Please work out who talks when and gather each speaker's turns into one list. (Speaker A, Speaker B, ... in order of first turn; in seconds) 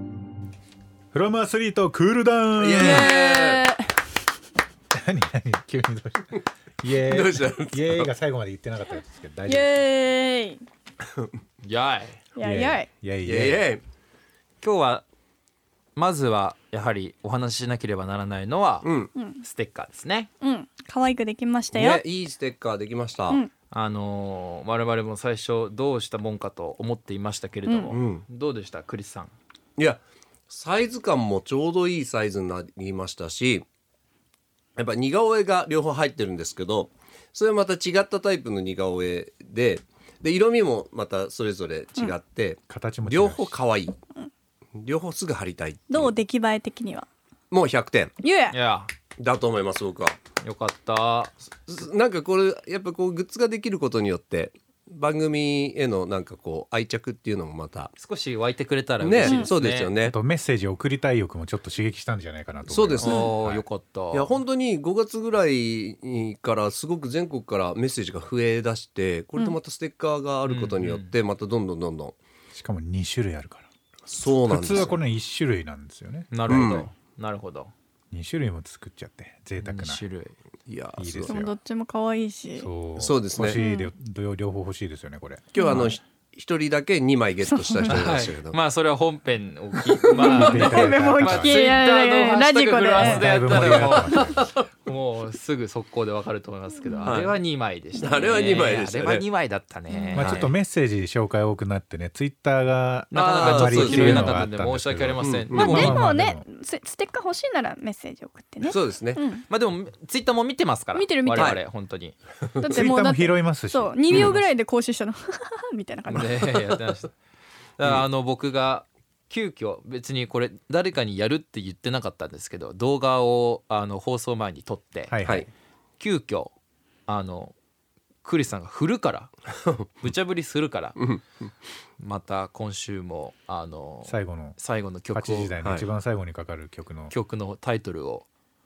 Speaker A: 1.1-3.1, 4.9-9.7, 12.4-13.7, 42.7-43.5, 60.0-63.6, 72.5-73.7, 74.5-76.3, 78.1-80.0, 81.0-81.5, 82.6-85.9, 90.1-91.6, 93.0-94.5, 100.1-106.4, 112.7-114.4, 125.1-125.5, 134.1-134.6, 135.1-137.1
Speaker B: 2.6-3.6, 7.1-8.1, 13.2-13.8, 18.8-19.1, 21.7-23.4, 27.9-28.2, 29.8-33.6, 34.8-44.0, 44.8-46.2, 47.5-48.1, 49.2-50.2, 51.7-57.9, 59.0-60.2, 62.7-63.3, 64.1-72.2, 74.1-74.9, 76.5-76.9, 80.7-81.4, 83.0-83.6, 85.5-88.6, 93.8-94.7, 97.0-97.4, 98.0-99.2, 103.2-104.5, 105.2-105.9, 108.7-109.2, 111.3-111.6, 116.4-117.0, 131.0-131.2
Speaker C: 2.7-3.9, 9.5-10.6, 12.4-12.9, 19.2-19.4, 20.4-22.0, 45.9-47.1, 48.2-48.5, 59.2-59.5, 81.3-82.7, 83.5-83.9, 85.6-85.9, 87.5-87.9, 90.1-93.9, 96.8-97.2, 98.0-98.6, 99.9-100.3, 105.5-109.5, 110.9-111.6, 112.6-116.4
Speaker D: 11.6-12.2, 14.6-15.0, 15.9-18.9, 19.4-20.3, 23.7-29.3, 48.5-48.9, 50.4-51.3, 58.0-59.9, 63.0-64.3, 70.5-71.1, 76.3-77.7, 79.6-80.3, 87.9-100.5, 103.1-106.0, 109.5-112.1, 116.1-117.1, 117.8-125.2, 126.0-126.5, 127.1-127.5, 128.2-129.3, 130.0-131.0, 132.0-135.5, 137.1-138.3